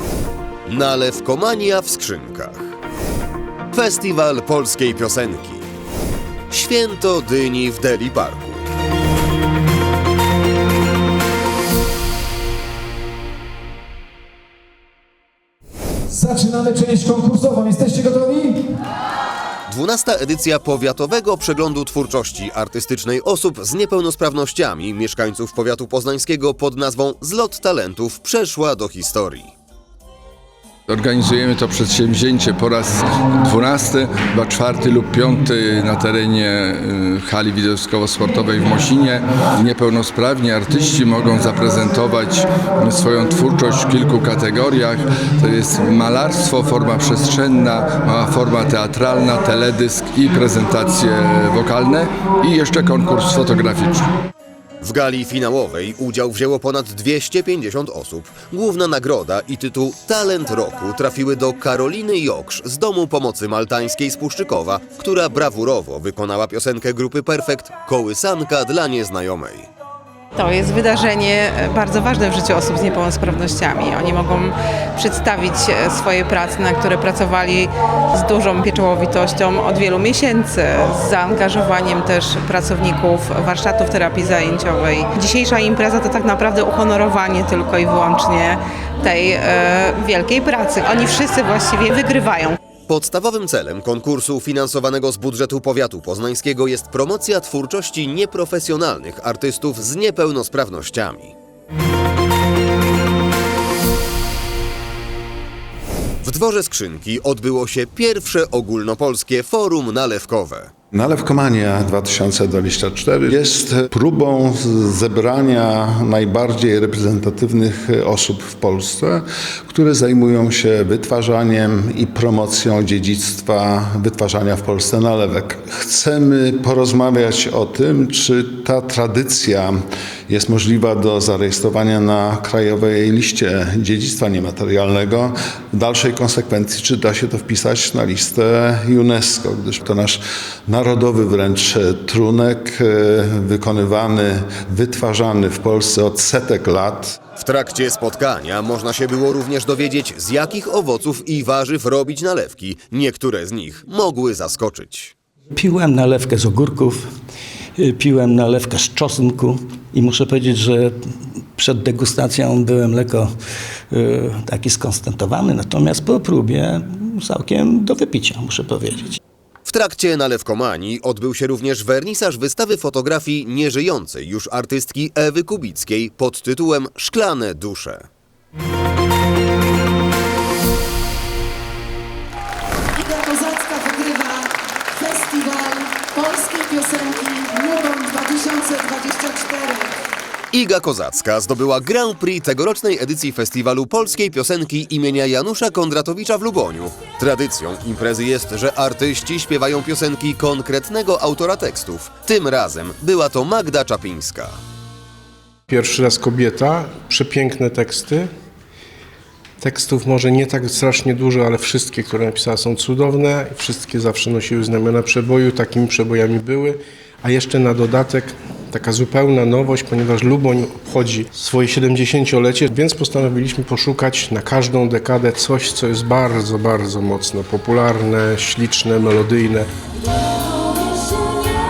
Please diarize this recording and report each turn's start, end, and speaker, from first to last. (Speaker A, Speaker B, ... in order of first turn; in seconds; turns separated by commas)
Speaker A: 0.7-2.7, Speaker A: 3.7-5.7, Speaker A: 6.5-8.7, Speaker B: 16.1-18.5, Speaker A: 19.7-29.5, Speaker C: 30.9-54.0, Speaker A: 54.8-69.7, Speaker D: 70.3-92.6, Speaker A: 92.9-101.3, Speaker A: 106.2-110.7, Speaker E: 110.9-147.2, Speaker A: 147.4-155.1, Speaker F: 155.5-157.1, Speaker F: 157.8-161.0, Speaker F: 161.5-163.3, Speaker F: 163.9-169.2, Speaker A: 169.7-178.1, Speaker G: 183.2-184.3, Speaker G: 185.0-189.7, Speaker A: 190.5-204.5, Speaker H: 205.7-208.3, Speaker H: 209.6-229.7